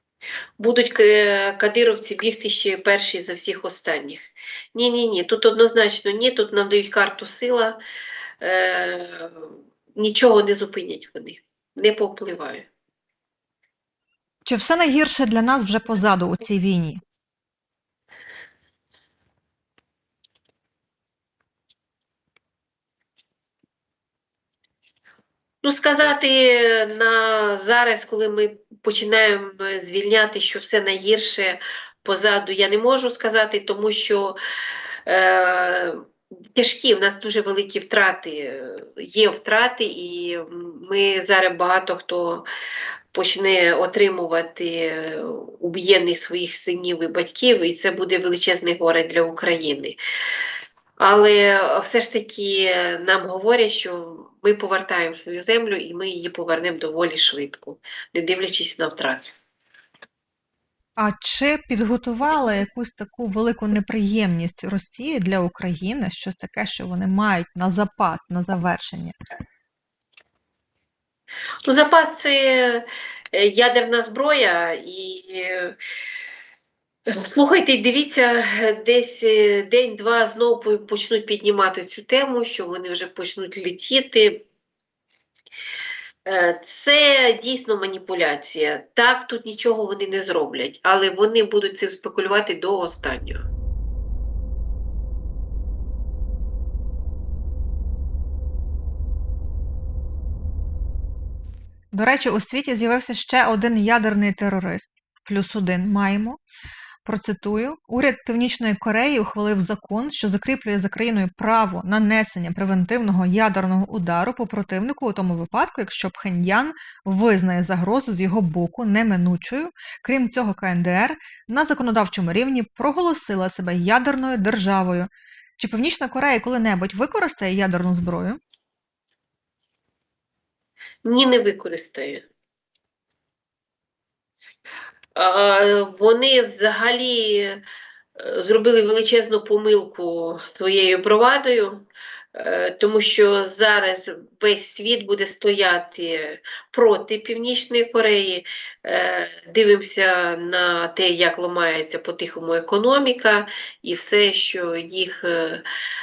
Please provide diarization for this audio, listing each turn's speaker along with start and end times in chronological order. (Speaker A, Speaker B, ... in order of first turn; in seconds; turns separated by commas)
Speaker A: 0.6-7.8, Speaker A: 8.4-12.7, Speaker B: 14.4-17.0, Speaker A: 25.6-34.4, Speaker A: 35.0-36.0, Speaker A: 36.5-42.5, Speaker A: 43.1-50.0, Speaker A: 51.0-59.3, Speaker B: 61.0-69.1, Speaker A: 71.6-75.8, Speaker A: 77.1-84.5, Speaker A: 86.2-93.4, Speaker B: 101.9-106.4, Speaker B: 107.0-128.4, Speaker A: 131.0-132.2, Speaker A: 135.1-137.6, Speaker A: 138.2-155.6